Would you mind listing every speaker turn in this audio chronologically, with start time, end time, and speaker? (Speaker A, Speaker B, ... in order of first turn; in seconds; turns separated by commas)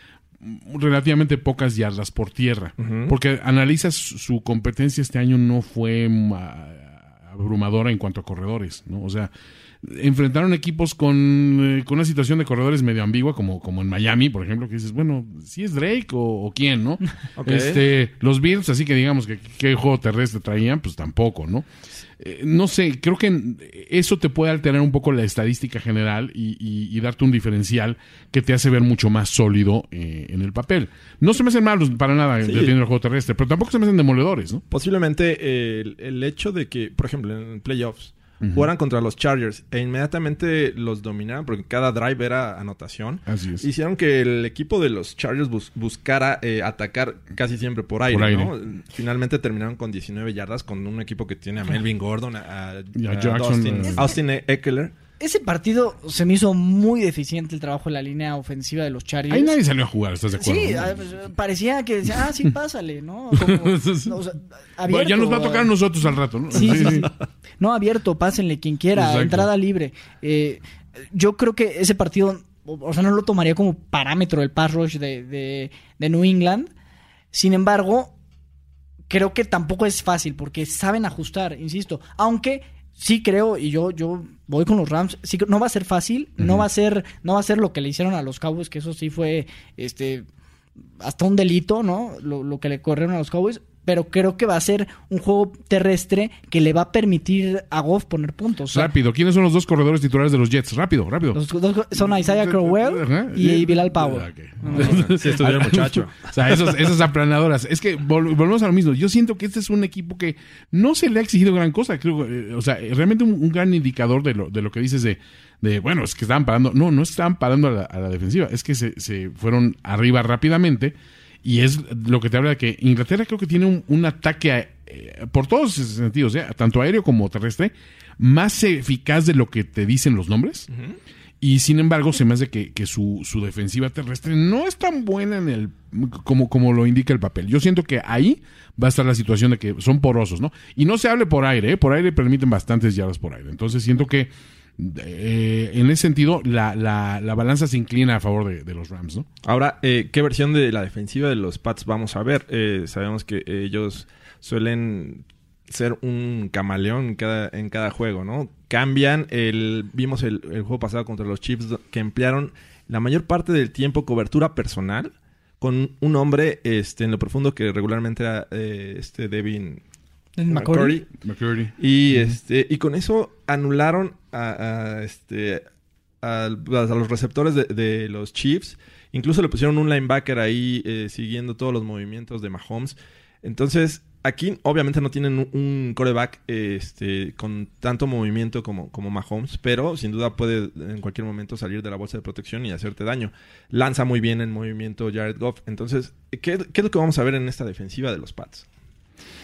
Speaker A: 0.4-9.3, Speaker B: 2.8-3.2, Speaker A: 9.8-21.7, Speaker B: 17.4-17.8, Speaker A: 22.2-34.6, Speaker B: 32.4-32.8, Speaker B: 34.7-55.0, Speaker A: 38.4-38.7, Speaker A: 43.3-43.7, Speaker A: 48.1-48.5, Speaker A: 53.0-54.0, Speaker C: 53.9-54.1, Speaker C: 55.2-59.6, Speaker A: 59.3-61.0, Speaker C: 60.4-65.7, Speaker A: 63.4-64.2, Speaker A: 64.9-67.1, Speaker C: 66.5-76.7, Speaker A: 69.0-69.5, Speaker C: 77.3-78.1, Speaker C: 79.1-90.3, Speaker C: 91.0-98.9, Speaker A: 98.7-101.4, Speaker C: 101.3-105.1, Speaker A: 102.0-130.7, Speaker B: 104.7-106.4, Speaker B: 130.7-131.0, Speaker A: 131.4-149.3, Speaker B: 149.4-169.8, Speaker C: 170.4-171.0, Speaker B: 170.5-171.1, Speaker A: 171.2-172.3, Speaker B: 171.8-175.6, Speaker B: 176.2-198.7